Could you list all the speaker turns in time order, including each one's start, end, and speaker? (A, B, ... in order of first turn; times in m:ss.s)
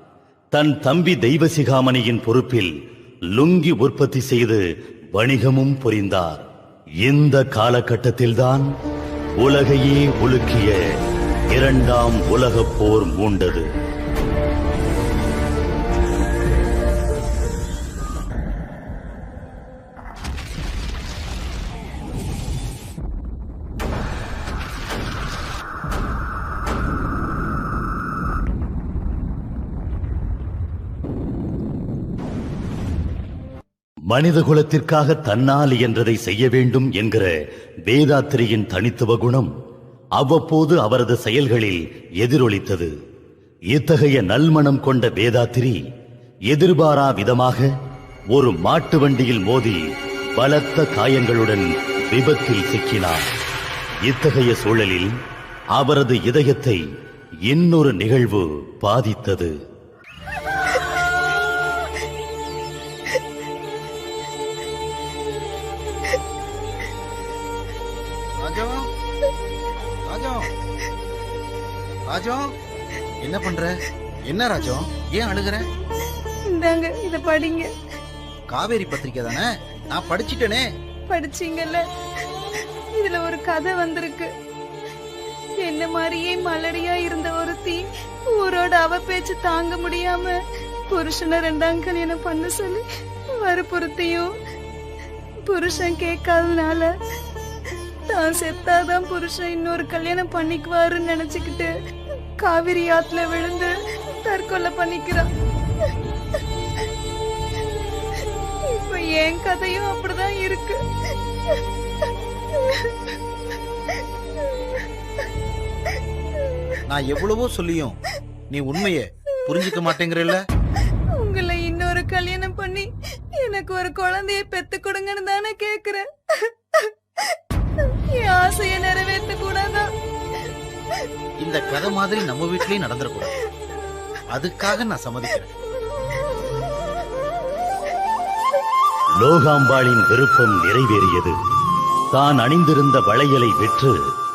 0:00.5-0:02.7 A
0:03.3-0:04.6 A
0:05.1-0:06.5 A
0:07.0-0:08.7 A
0:09.4-0:10.8 A
0:11.5-0:13.7 A
0:34.1-0:37.3 A
0:37.9-0:39.5 A
0:40.2-0:42.9 A
0:43.7-0:45.8 A
0:46.5-0:47.7 A
0:48.3-0:49.8 A
0:50.4-0:53.3 A
0:54.0-0:55.2 A
0:55.8-0:56.8 A
0:57.5-0:59.6 A
1:08.4-1:08.9 B
1:10.1-1:10.5 B
1:12.1-1:12.5 B
1:13.2-1:15.6 B
1:16.5-1:17.7 C
1:18.5-1:20.6 B
1:21.1-1:21.8 C
1:23.0-1:24.3 C
1:25.6-1:30.4 C
1:30.9-1:32.8 C
1:33.4-1:34.3 C
1:35.5-1:36.9 C
1:38.1-1:41.7 C
1:42.4-1:43.7 C
1:44.2-1:45.3 C
1:48.7-1:50.8 C
1:52.6-1:52.9 C
1:56.9-1:58.0 B
1:58.5-2:00.4 B
2:01.2-2:02.9 C
2:03.4-2:07.4 C
2:08.1-2:09.9 C
2:11.4-2:13.3 B
2:14.3-2:15.5 B
2:19.2-2:21.4 A
2:22.1-2:24.0 A